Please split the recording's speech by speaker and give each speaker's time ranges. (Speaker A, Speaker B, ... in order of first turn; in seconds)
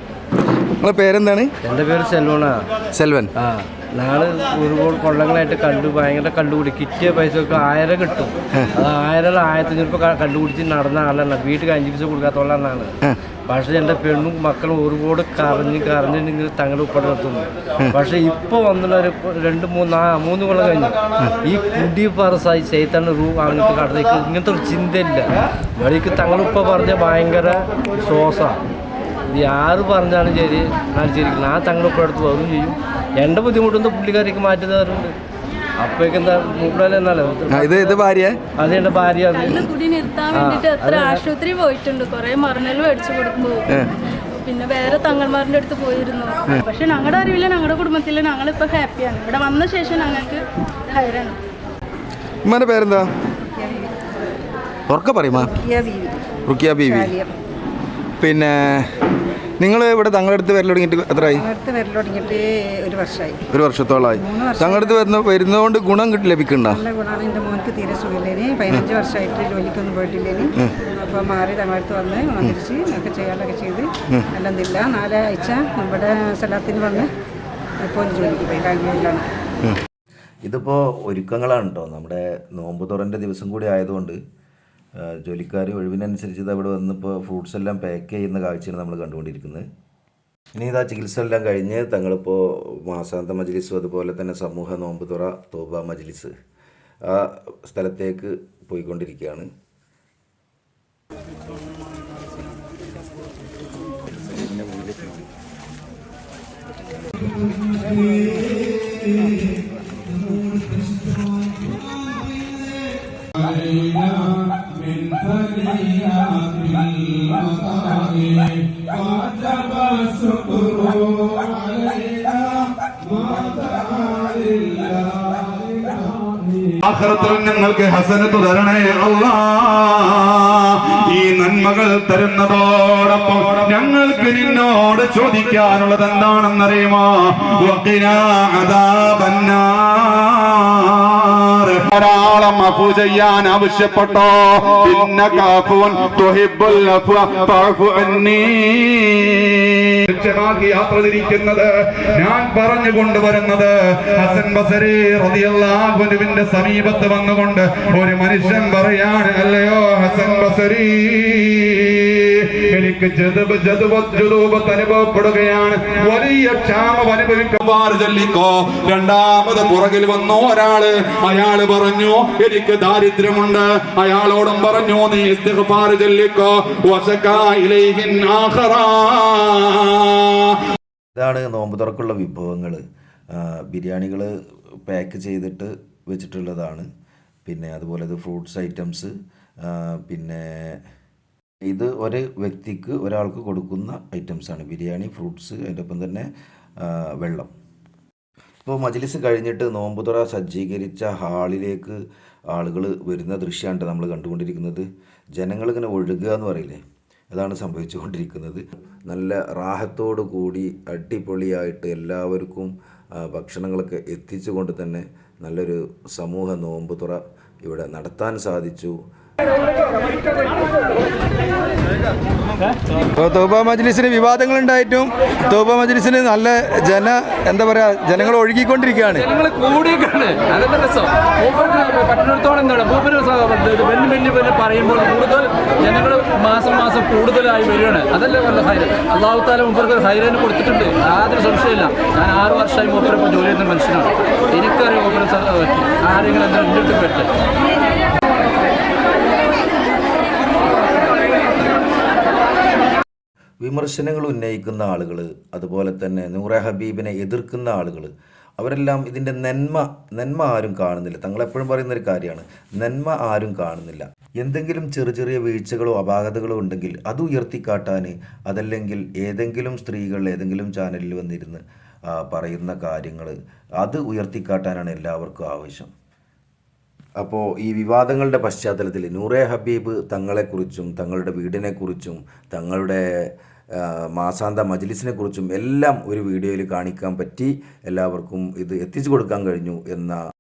Speaker A: 0.8-1.5, 2.9-3.3, 37.5-38.4, 52.5-53.1, 54.9-55.5, 56.5-57.1, 58.2-58.9, 59.6-61.5, 63.5-66.8, 223.1-229.3
Speaker B: 1.6-2.7, 3.4-12.9, 13.5-28.6, 29.3-35.1, 35.8-38.0, 38.6-39.6, 40.3-41.2
Speaker C: 39.5-43.6, 44.4-51.4
Speaker D: 53.5-53.9, 55.5-56.1, 56.8-57.3, 61.2-63.4, 64.0-65.0, 66.6-70.5, 71.0-77.1, 77.8-79.2
Speaker E: 80.4-84.2, 85.0-89.6, 90.5-96.3, 97.1-99.5, 181.2-182.8, 183.3-184.3, 184.9-186.9, 187.4-189.1, 189.7-190.8, 191.7-196.3, 196.8-197.5, 198.6-201.9, 202.5-204.9, 205.4-206.8, 207.3-218.9, 253.6-271.6, 272.1-275.9, 277.2-283.0, 283.8-290.2
Speaker F: 113.8-118.5, 119.4-122.3, 123.2-124.9, 126.8-180.5
Speaker G: 229.7-244.1, 244.6-247.1